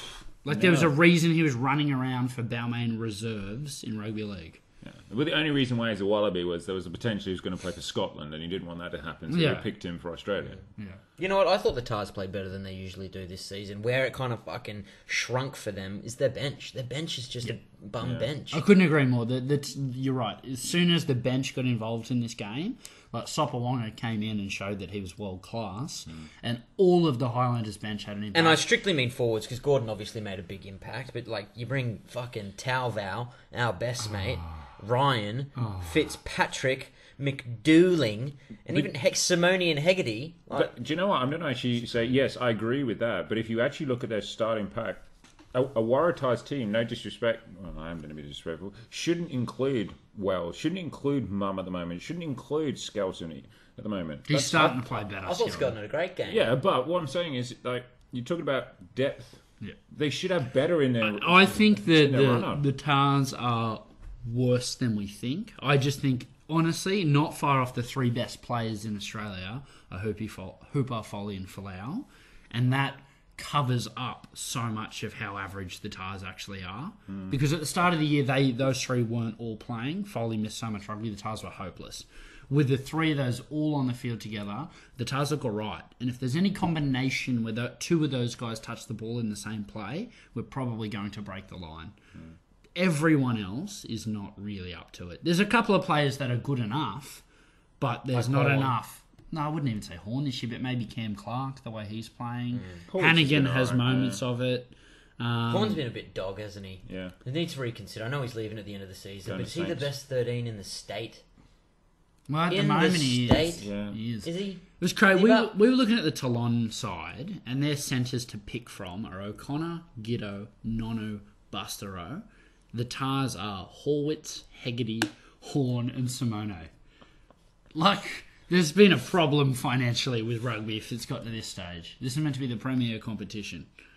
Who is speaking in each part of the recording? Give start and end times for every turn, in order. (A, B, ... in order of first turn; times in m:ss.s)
0:00.4-0:04.6 A
0:00.5-0:00.9 B
0:04.8-0:10.6 B
0:09.3-0:09.7 A
0:11.2-0:18.6 C
0:18.0-0:18.3 B
0:18.5-0:28.6 A
0:28.3-0:40.7 C
0:35.6-0:35.9 A
0:40.5-0:54.8 B
0:54.3-0:55.7 A
0:55.2-0:56.5 C
0:56.3-1:02.6 B
1:01.0-1:32.0 A
1:17.1-1:17.4 B
1:32.8-1:37.2 A
1:37.8-1:45.8 A
1:38.1-1:38.8 C
1:42.5-1:42.8 C
1:42.9-1:44.2 B
1:45.5-1:51.2 C
1:46.8-1:47.1 B
1:49.2-1:49.9 B
1:52.3-2:06.7 A
1:52.5-1:53.7 C
1:53.6-1:54.0 B
1:54.2-1:55.5 C
2:07.7-2:13.7 A